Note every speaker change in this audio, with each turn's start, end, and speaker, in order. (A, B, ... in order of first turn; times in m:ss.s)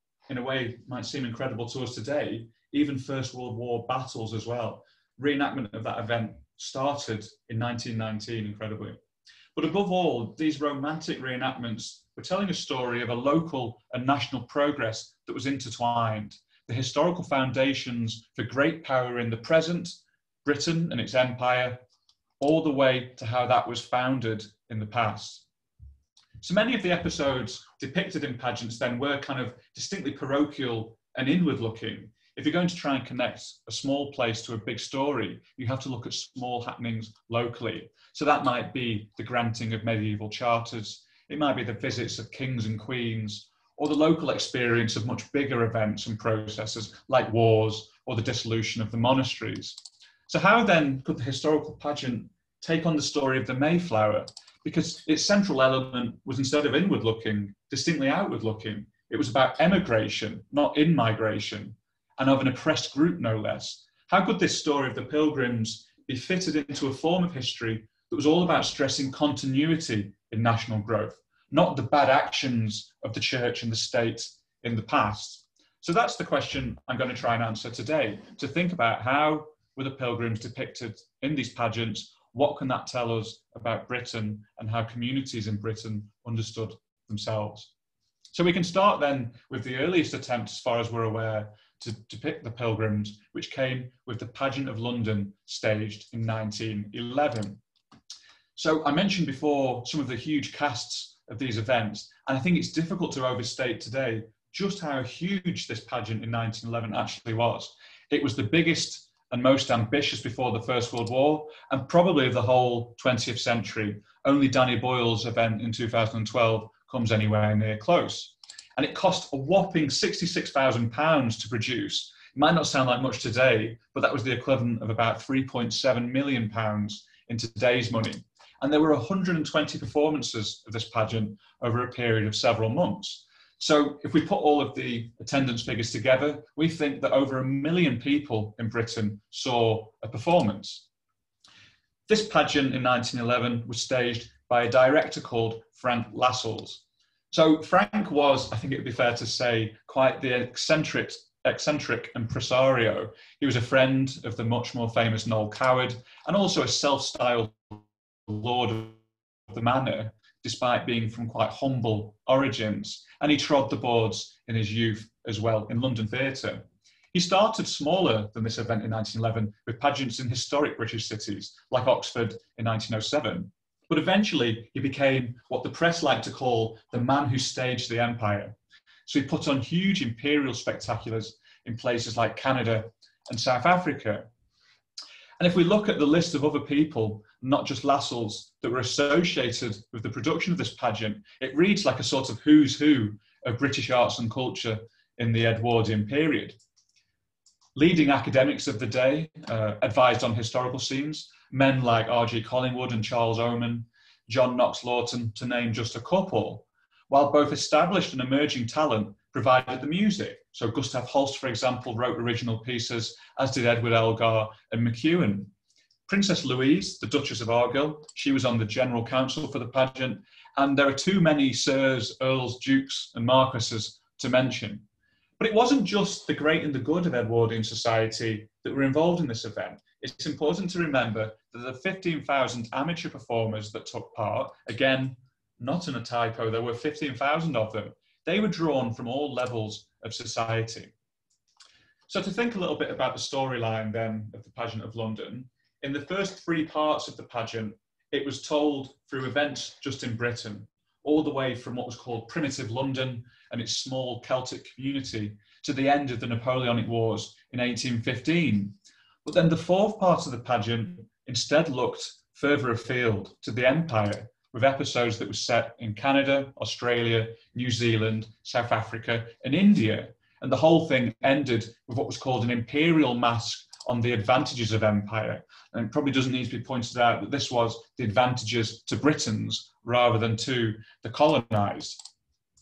0:00.3-0:09.0 A
0:09.5-0:21.8 A
0:22.4-0:25.4 A
0:26.4-1:27.7 A
1:28.3-1:37.6 A
1:38.6-2:20.8 A
2:22.1-2:39.0 A
2:39.5-2:58.5 A
2:59.0-3:04.3 A
3:05.4-3:16.6 A
3:17.7-3:35.5 A
3:36.1-3:44.8 A
3:45.4-4:00.9 A
4:02.1-4:42.0 A